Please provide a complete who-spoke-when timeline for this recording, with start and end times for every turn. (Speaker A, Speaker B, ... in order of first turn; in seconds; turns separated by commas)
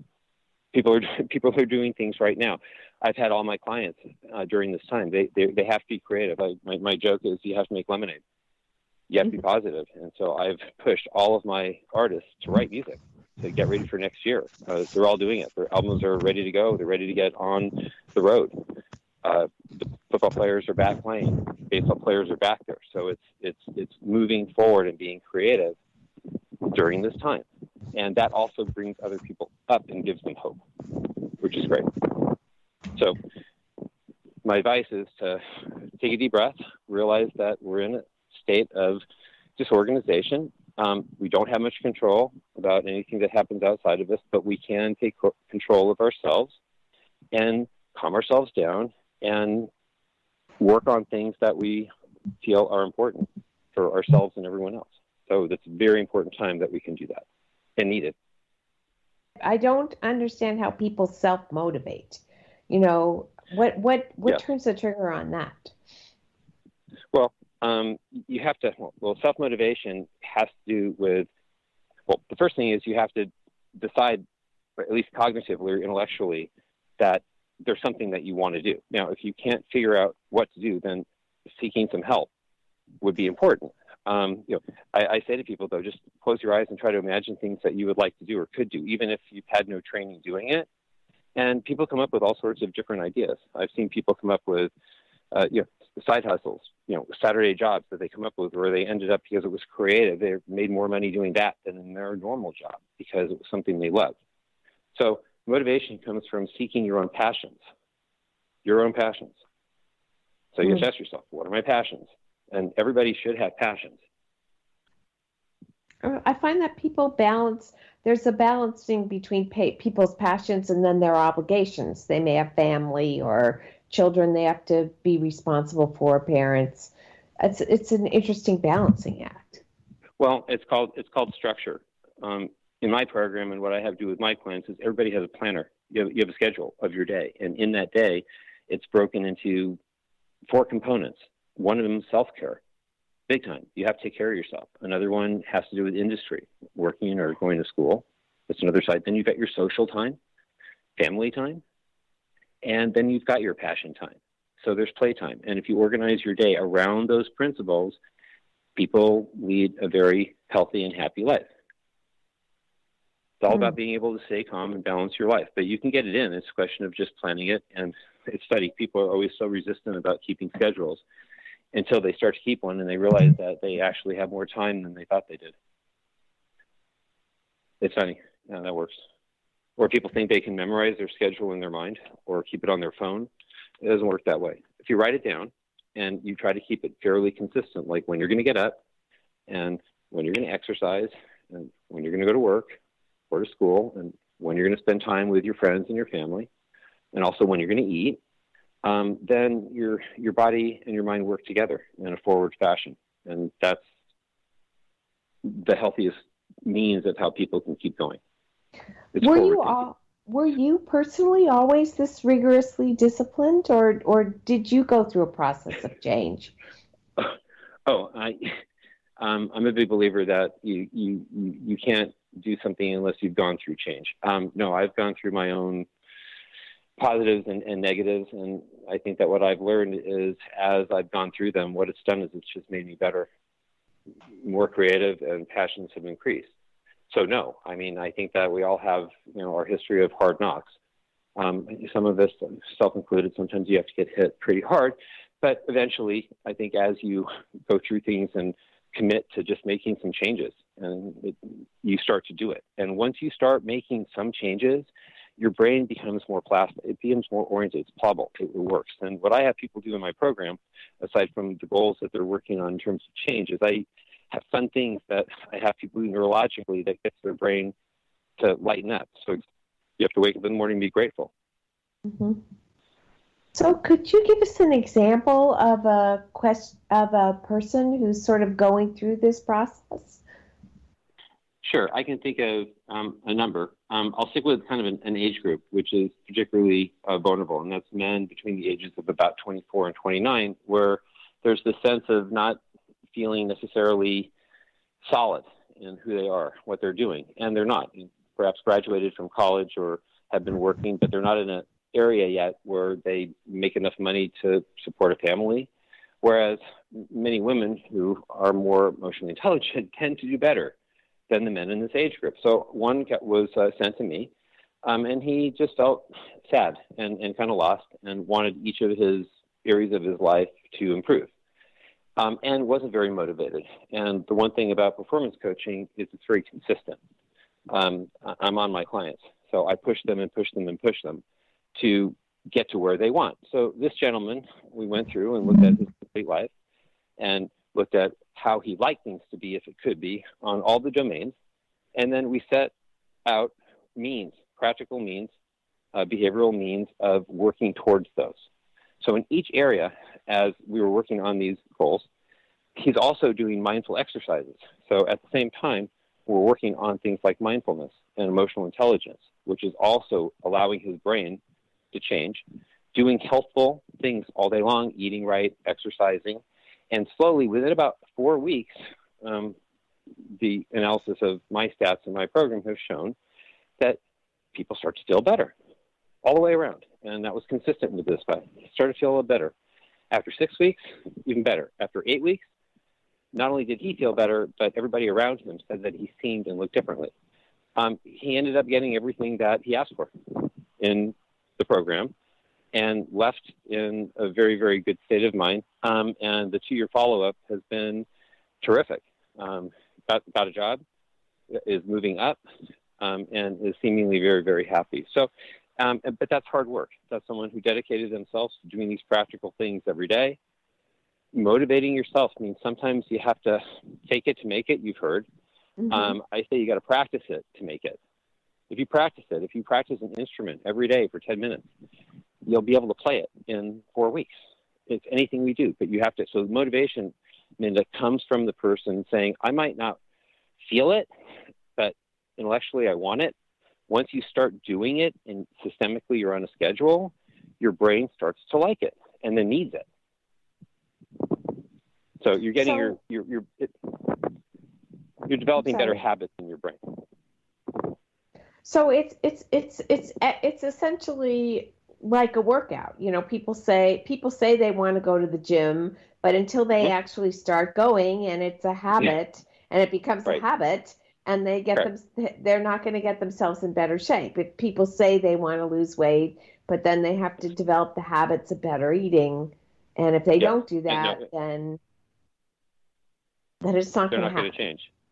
Speaker A: 0.7-8.2, Speaker A: 9.1-18.6, Speaker A: 19.2-25.8, Speaker A: 26.6-32.4, Speaker A: 34.4-39.0, Speaker A: 39.6-46.6, Speaker A: 47.3-49.7, Speaker A: 50.6-51.9, Speaker A: 52.4-57.2, Speaker A: 57.8-58.1, Speaker B: 59.4-65.7, Speaker A: 67.1-71.3, Speaker A: 72.1-74.2, Speaker A: 74.8-82.3, Speaker A: 83.0-90.7, Speaker A: 91.3-94.7, Speaker A: 95.3-104.2, Speaker A: 104.9-107.6, Speaker A: 108.6-109.4, Speaker A: 110.5-114.0, Speaker B: 116.0-129.6, Speaker A: 130.2-139.8, Speaker A: 140.5-142.6, Speaker A: 143.3-150.2, Speaker A: 151.0-151.6, Speaker A: 152.6-158.0, Speaker A: 158.8-161.4, Speaker A: 163.4-171.0, Speaker A: 171.7-175.5, Speaker A: 177.8-178.9, Speaker A: 179.8-183.3, Speaker A: 183.8-188.8, Speaker A: 189.5-192.7, Speaker A: 193.3-196.5, Speaker A: 197.1-198.2, Speaker A: 198.8-203.8, Speaker A: 205.4-208.2, Speaker A: 209.1-209.9, Speaker B: 209.2-216.5, Speaker A: 217.2-218.6, Speaker A: 219.2-225.9, Speaker A: 227.0-233.3, Speaker A: 234.4-236.5, Speaker A: 237.1-240.7, Speaker A: 241.3-267.7, Speaker A: 268.4-269.4, Speaker A: 270.0-271.3, Speaker B: 272.1-272.4, Speaker B: 273.5-280.2, Speaker A: 281.6-292.6, Speaker A: 293.1-294.3, Speaker A: 295.0-305.7, Speaker A: 306.2-310.8, Speaker A: 311.3-314.3, Speaker A: 314.8-321.3, Speaker A: 322.2-327.0, Speaker A: 327.7-331.2, Speaker A: 331.7-336.5, Speaker A: 337.2-341.3, Speaker A: 341.9-342.7, Speaker A: 343.2-345.3, Speaker A: 345.9-348.4, Speaker A: 349.0-352.1, Speaker A: 352.8-361.4, Speaker A: 361.9-369.6, Speaker A: 370.4-373.1, Speaker A: 374.5-375.5, Speaker A: 376.2-379.5, Speaker A: 380.1-382.4, Speaker A: 383.3-387.1, Speaker A: 387.7-392.1, Speaker A: 392.7-398.1, Speaker A: 398.6-400.8, Speaker A: 401.5-402.4, Speaker A: 403.0-410.4, Speaker A: 411.3-415.2, Speaker B: 415.8-416.1, Speaker A: 415.9-418.0, Speaker A: 418.7-421.7, Speaker A: 422.4-424.3, Speaker A: 424.9-430.0, Speaker A: 430.6-431.1, Speaker A: 431.8-433.3, Speaker A: 433.9-439.9, Speaker A: 442.2-444.4, Speaker B: 442.6-442.9, Speaker A: 445.2-447.0, Speaker B: 445.6-446.0, Speaker B: 448.6-471.8, Speaker A: 470.4-471.2, Speaker B: 473.6-474.5, Speaker A: 474.1-474.9